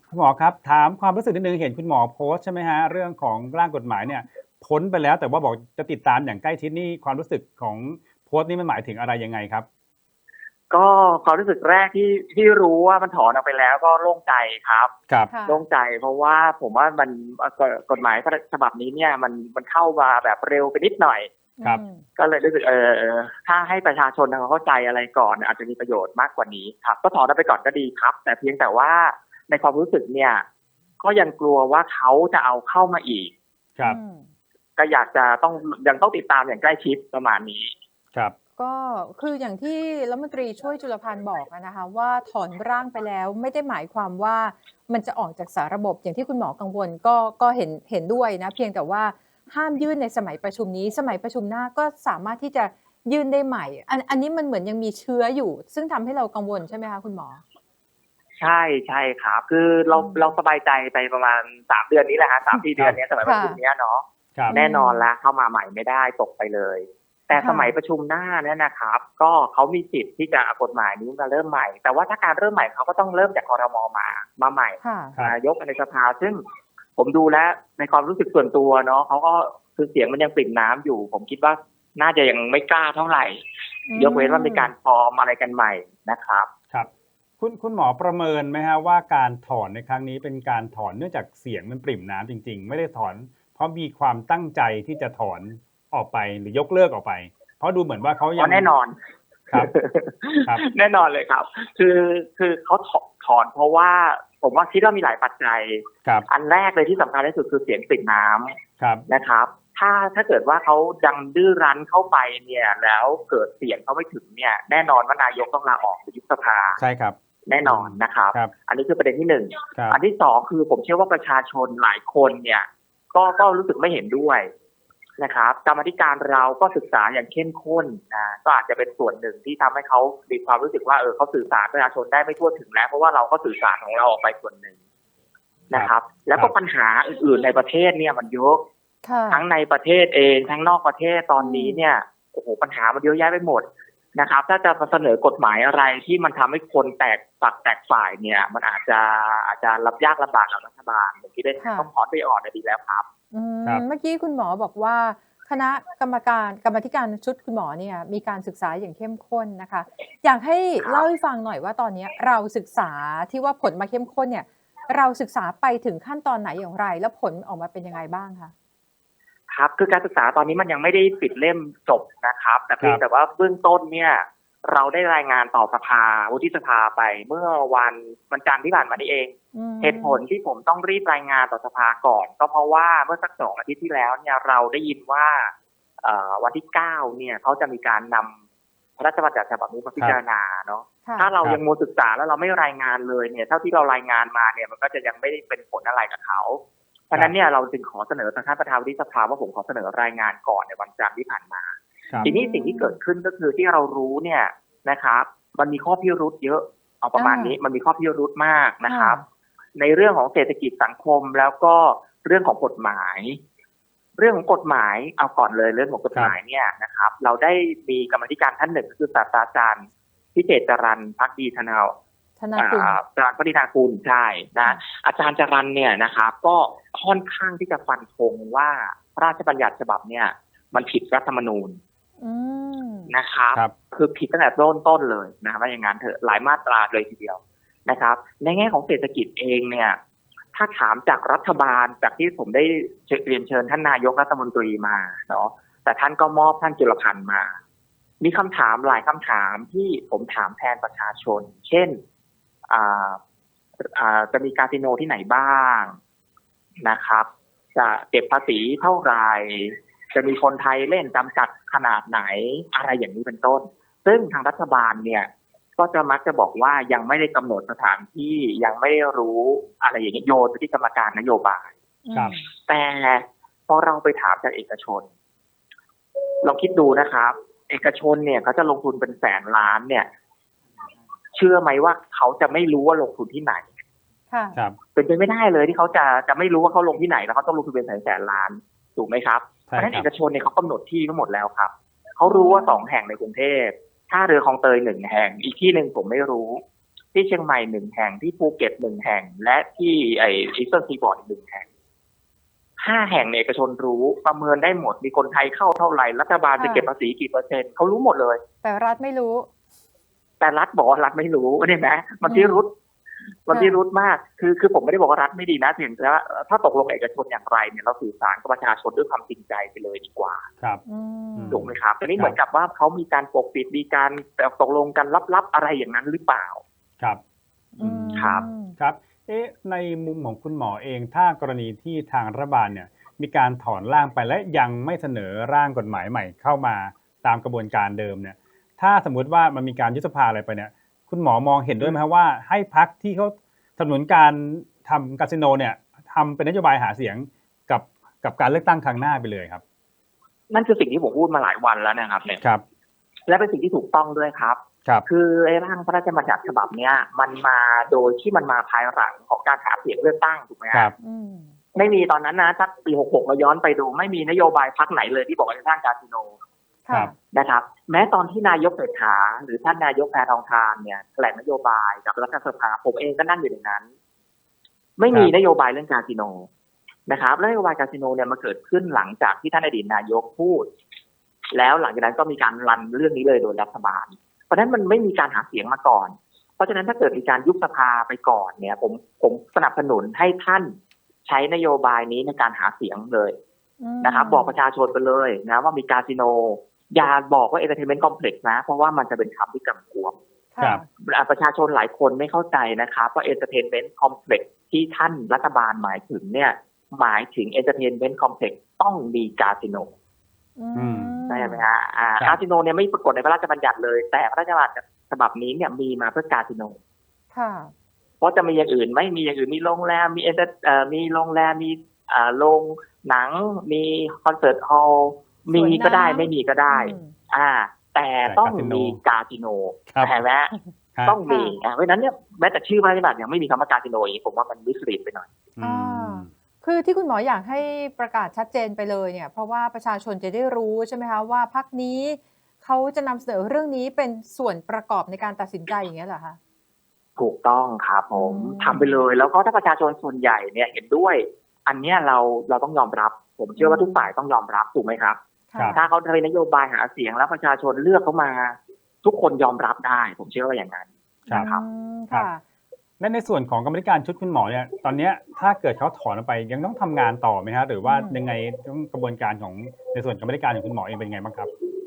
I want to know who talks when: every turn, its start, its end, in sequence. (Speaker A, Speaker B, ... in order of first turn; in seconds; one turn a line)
Speaker A: 0.1-9.7
Speaker B: 10.7-14.9
Speaker C: 15.3-15.6
Speaker B: 15.5-21.3
Speaker C: 21.6-22.0
Speaker B: 22.2-30.4
Speaker B: 31.0-33.3
Speaker C: 33.8-34.3
Speaker B: 34.8-37.7
Speaker C: 38.6-57.4
Speaker B: 58.4-76.4
Speaker C: 59.9-60.3
Speaker C: 63.2-63.6
Speaker C: 64.5-65.0
Speaker C: 67.3-67.7
Speaker C: 74.8-75.1
Speaker B: 77.0-83.4
Speaker C: 83.9-84.7
Speaker B: 83.9-86.5
Speaker A: 86.7-98.7
Speaker B: 98.4-98.9
Speaker B: 99.5-108.5
Speaker B: 109.1-116.8
Speaker A: 116.8-118.5
Speaker B: 117.5-124.5
Speaker B: 125.2-134.8
Speaker B: 135.7-138.6
Speaker A: 135.7-136.5
Speaker C: 139.0-139.4
Speaker B: 139.3-153.1
Speaker C: 141.4-141.8
Speaker C: 151.6-151.9
Speaker C: 153.3-168.5
Speaker B: 160.8-161.1
Speaker B: 169.5-188.4
Speaker C: 179.5-180.2
Speaker B: 189.0-209.2
Speaker C: 191.0-191.3
Speaker C: 202.2-202.9
Speaker C: 207.2-207.6
Speaker C: 208.8-209.2
Speaker B: 209.8-213.4
Speaker B: 214.2-221.9
Speaker C: 222.4-223.0
Speaker B: 222.6-231.8
Speaker C: 232.2-233.1
Speaker B: 233.1-240.0
Speaker B: 240.5-247.5
Speaker B: 248.2-252.0
Speaker B: 252.7-253.2
Speaker B: 253.8-256.0
Speaker B: 256.8-271.7
Speaker C: 272.0-272.5
Speaker B: 272.7-275.1
Speaker B: 276.4-280.1
Speaker B: 281.3-283.7
Speaker C: 284.3-284.6
Speaker B: 284.9-296.6
Speaker A: 289.7-290.1
Speaker C: 292.2-292.8
Speaker B: 297.1-301.6
Speaker B: 302.8-308.4
Speaker C: 306.6-306.9
Speaker C: 308.6-309.5
Speaker B: 310.4-312.7
Speaker C: 312.2-312.6
Speaker B: 313.4-320.4
Speaker C: 313.5-313.8
Speaker C: 320.9-321.6
Speaker A: 321.4-322.4
Speaker B: 321.5-326.6
Speaker C: 327.8-328.8
Speaker A: 327.8-328.2
Speaker B: 328.1-328.4
Speaker A: 328.8-349.6
Speaker B: 350.5-352.4
Speaker B: 353.3-360.9
Speaker C: 361.0-361.6
Speaker B: 361.7-366.3
Speaker C: 366.9-367.1
Speaker B: 367.3-373.9
Speaker B: 375.0-376.5
Speaker B: 377.1-380.6
Speaker B: 381.5-390.7
Speaker B: 391.2-393.4
Speaker C: 393.8-394.6
Speaker B: 394.0-400.1
Speaker C: 400.5-400.9
Speaker B: 401.0-409.9
Speaker C: 410.6-411.6
Speaker A: 410.8-411.2
Speaker B: 411.3-416.8
Speaker C: 417.3-417.7
Speaker B: 418.2-430.5
Speaker C: 425.5-427.1
Speaker A: 428.2-429.0
Speaker B: 431.1-435.3
Speaker C: 431.3-431.6
Speaker A: 435.6-436.3
Speaker C: 435.6-446.4
Speaker B: 447.2-455.2
Speaker C: 448.1-449.0
Speaker C: 453.6-454.1
Speaker C: 455.5-455.8
Speaker B: 455.7-461.6
Speaker C: 461.3-462.4
Speaker A: 463.0-471.5
Speaker C: 467.8-468.2